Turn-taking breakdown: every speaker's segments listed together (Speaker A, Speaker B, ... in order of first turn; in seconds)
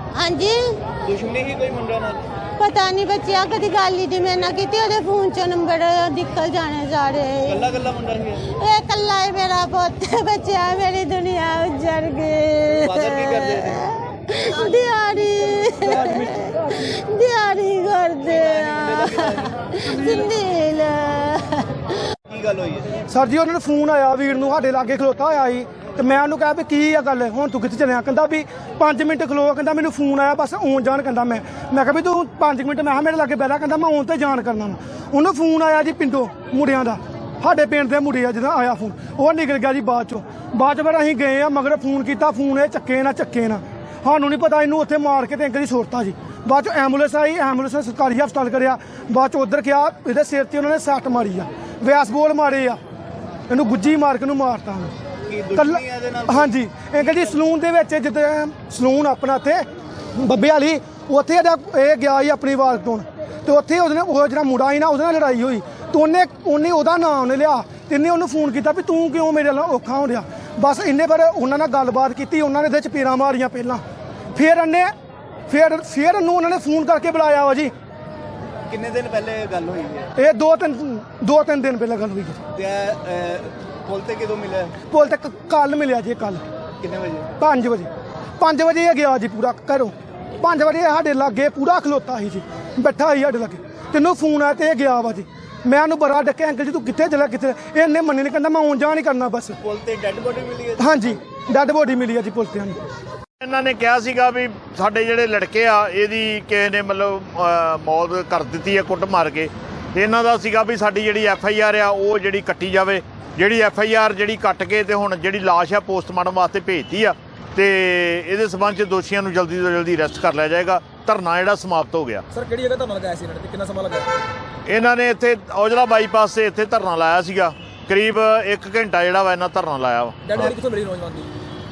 Speaker A: 0.1-0.8, 2.6-7.7, 8.4-21.8
Speaker B: 1.0-2.2, 7.5-8.4, 12.8-13.8, 18.3-19.5, 22.3-23.0, 55.3-57.4, 78.7-80.1, 82.5-84.8, 86.8-87.3, 99.6-101.2
Speaker C: 23.1-52.8, 53.5-54.9, 55.5-73.8, 74.3-74.9, 75.5-77.7, 80.2-82.4, 84.9-86.5, 87.4-99.6, 100.8-102.8
Speaker D: 103.4-122.2, 124.7-130.5
Speaker E: 122.3-124.1, 130.2-131.3